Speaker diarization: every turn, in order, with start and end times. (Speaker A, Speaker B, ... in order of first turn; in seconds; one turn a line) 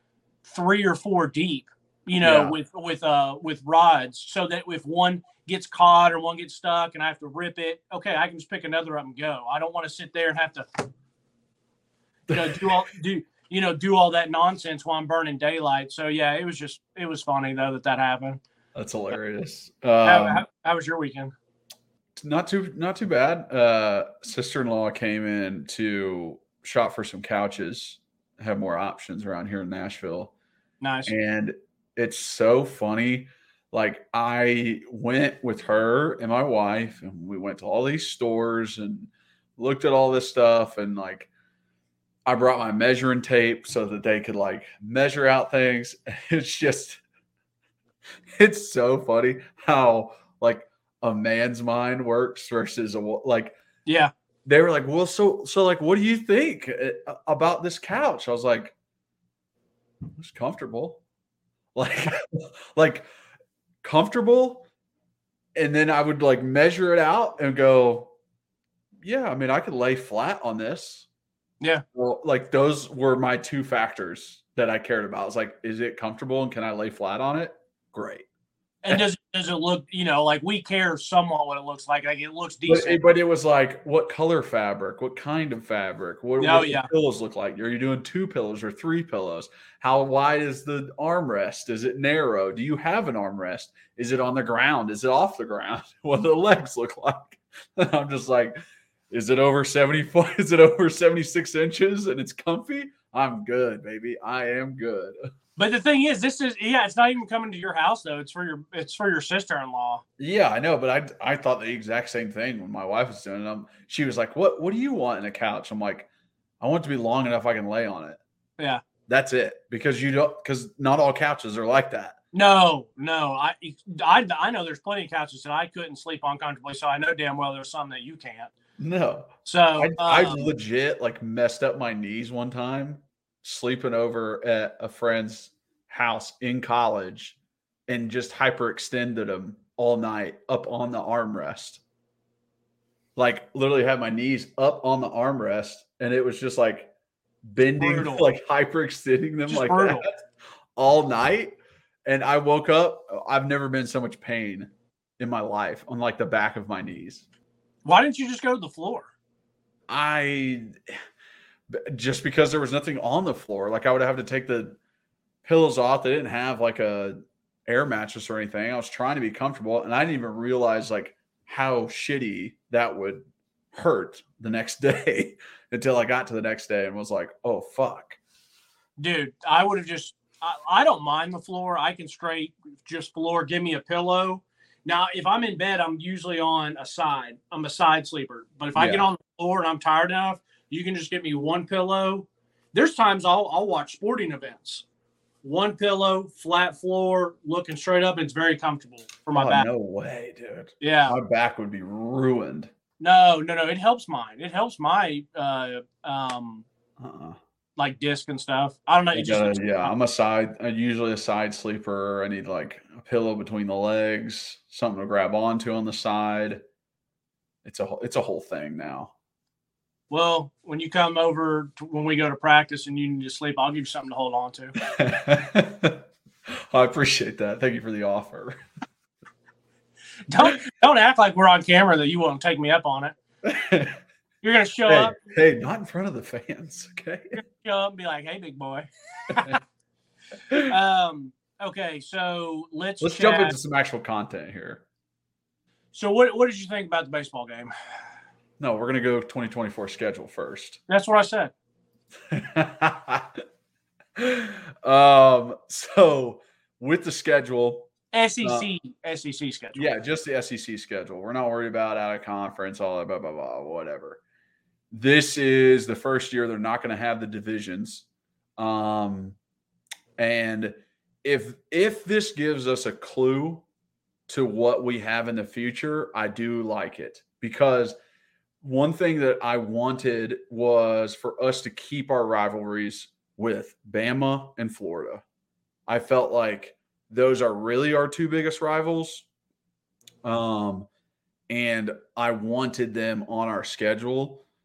Speaker A: 0.4-10.7
Speaker B: 2.2-2.6
Speaker B: 12.3-12.7
Speaker A: 12.3-18.4
Speaker B: 18.7-20.4
Speaker A: 20.0-21.3
Speaker B: 22.1-30.3
Speaker A: 30.8-31.1
Speaker B: 31.1-41.3
Speaker B: 42.2-47.0
Speaker B: 48.4-53.6
Speaker A: 53.9-54.1
Speaker B: 54.5-58.7
Speaker B: 60.1-61.0
Speaker B: 61.7-63.1
Speaker B: 63.8-64.7
Speaker B: 65.5-68.1
Speaker B: 69.0-71.1
Speaker B: 71.9-78.2
Speaker A: 78.8-83.1
Speaker B: 82.7-98.6
Speaker A: 86.4-86.9
Speaker B: 99.1-105.2
Speaker A: 105.5-110.0
Speaker B: 110.2-116.1
Speaker B: 116.6-118.2
Speaker A: 118.6-118.8
Speaker B: 119.1-122.2
Speaker A: 122.3-128.5
Speaker B: 128.8-137.3
Speaker A: 129.4-130.5
Speaker B: 137.9-141.8
Speaker B: 143.2-146.9
Speaker B: 147.4-150.2
Speaker A: 147.8-148.2
Speaker A: 149.5-150.1
Speaker B: 150.8-157.2
Speaker A: 157.8-159.1
Speaker B: 159.9-160.9
Speaker B: 161.7-164.8
Speaker B: 165.4-178.2
Speaker A: 179.0-194.8
Speaker B: 188.7-189.1
Speaker A: 195.4-199.7
Speaker B: 199.3-202.7
Speaker A: 200.8-201.1
Speaker A: 203.0-206.6
Speaker B: 207.0-207.4
Speaker A: 207.8-209.9
Speaker B: 209.1-216.6
Speaker B: 217.6-219.1
Speaker A: 220.1-224.7
Speaker B: 224.8-228.6
Speaker A: 230.3-233.1
Speaker B: 233.4-234.0
Speaker A: 234.4-235.2
Speaker B: 234.9-237.4
Speaker A: 237.3-239.6
Speaker A: 240.7-243.5
Speaker B: 243.0-244.8
Speaker A: 245.9-247.7
Speaker B: 248.6-250.8
Speaker A: 250.9-251.5
Speaker B: 252.3-253.4
Speaker B: 254.2-257.9
Speaker A: 258.1-259.9
Speaker B: 258.4-258.7
Speaker B: 259.7-264.2
Speaker B: 264.9-268.1
Speaker B: 268.6-269.4
Speaker B: 270.2-273.6
Speaker B: 274.3-277.9
Speaker B: 278.6-285.2
Speaker B: 285.9-289.2
Speaker B: 290.2-290.9
Speaker B: 291.5-294.4